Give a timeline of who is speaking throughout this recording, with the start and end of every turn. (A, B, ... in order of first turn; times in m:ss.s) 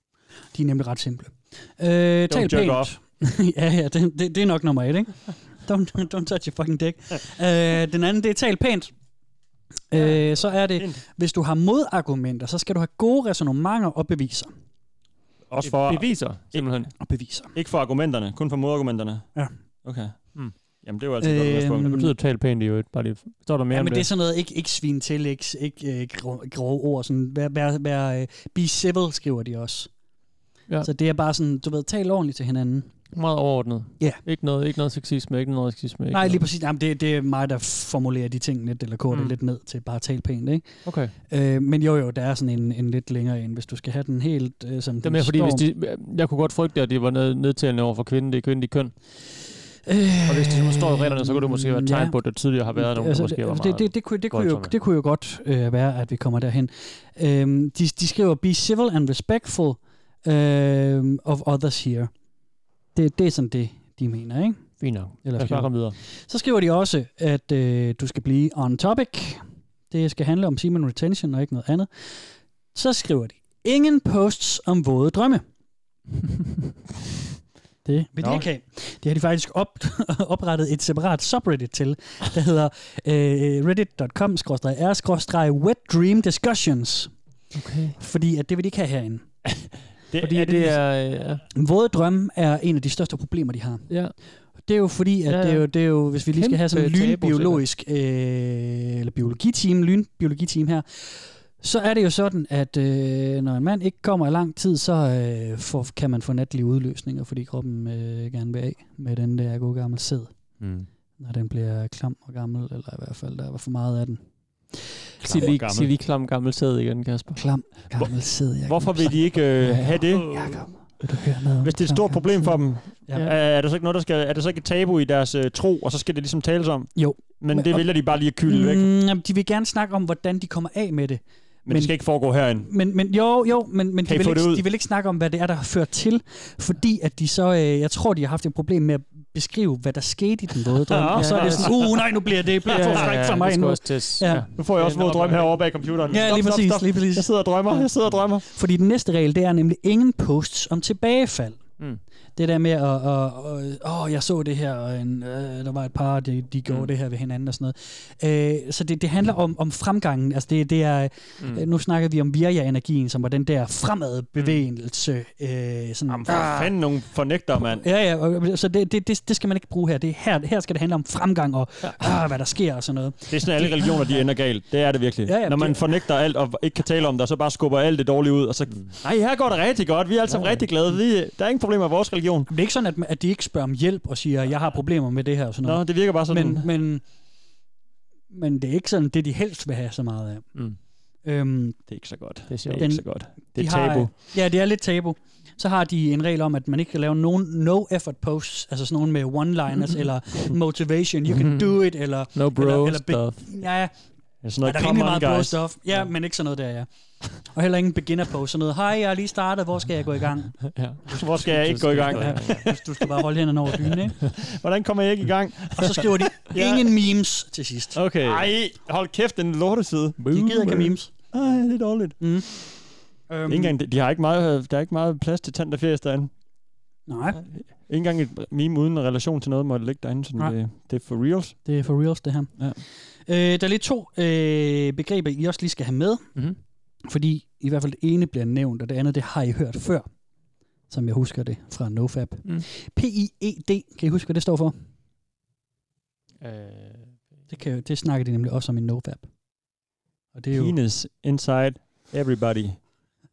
0:00.5-0:08.9 A
0:02.3-0:02.9 B
0:09.9-0:14.5 A
0:10.0-0:11.0 B
0:15.5-0:16.9 B
0:15.6-0:16.9 C
0:17.0-0:17.5 A
0:17.5-0:19.3 B
0:19.8-0:21.9 B
0:21.2-0:22.1 A
0:21.8-0:24.1 C
0:23.7-0:29.9 A
0:30.8-0:32.9 A
0:33.2-0:36.4 C
0:36.1-0:45.7 A
0:39.1-0:39.4 C
0:40.8-0:41.1 C
0:45.0-0:49.0 C
0:49.9-1:02.1 A
0:50.3-0:54.7 C
1:03.0-1:15.4 A
1:04.8-1:06.0 C
1:17.8-1:27.1 A
1:18.2-1:18.5 B
1:27.5-1:28.0 C
1:28.0-1:29.2 A
1:29.5-1:30.8 B
1:30.2-1:31.4 C
1:31.6-1:50.6 A
1:33.9-1:34.1 C
1:35.3-1:37.6 C
1:50.6-1:50.9 C
1:51.2-1:54.2 A
1:54.7-1:55.5 A
1:55.2-1:57.8 C
1:55.3-1:55.9 B
1:57.4-2:03.3 A
1:58.6-2:00.4 B
2:00.3-2:00.6 C
2:01.6-2:08.9 B
2:07.0-2:24.5 A
2:11.7-2:12.7 B
2:14.0-2:14.6 B
2:20.9-2:22.1 B
2:21.1-2:22.1 C
2:22.6-2:23.3 B
2:22.7-2:25.9 C
2:24.6-2:28.5 B
2:26.1-2:27.8 A
2:28.5-2:31.6 A
2:32.4-2:46.7 A
2:46.1-2:47.8 B
2:47.6-2:54.2 A
2:53.3-3:02.5 B
2:55.3-2:55.8 A
3:02.5-3:07.0 A
3:05.6-3:06.7 B
3:08.3-3:10.6 A
3:11.2-3:11.9 A
3:11.9-3:14.1 B
3:12.5-3:12.9 C
3:12.8-3:23.9 A
3:21.3-3:23.5 C
3:24.4-3:25.6 B
3:24.6-3:30.8 A
3:30.7-3:32.7 C
3:31.1-3:32.8 B
3:31.6-3:34.2 A
3:34.4-3:36.9 B
3:35.8-3:38.0 A
3:38.0-3:40.2 B
3:40.2-3:41.0 C
3:40.3-3:41.1 A
3:41.3-3:42.2 B
3:42.2-3:43.8 A
3:43.5-3:46.4 B
3:47.1-3:47.4 A
3:47.4-3:51.6 B
3:50.4-3:50.6 A
3:51.6-3:56.4 A
3:57.0-4:00.1 A
4:00.9-4:04.8 A
4:06.4-4:07.3 C
4:07.5-4:09.3 A
4:10.3-4:10.8 A
4:10.5-4:12.9 B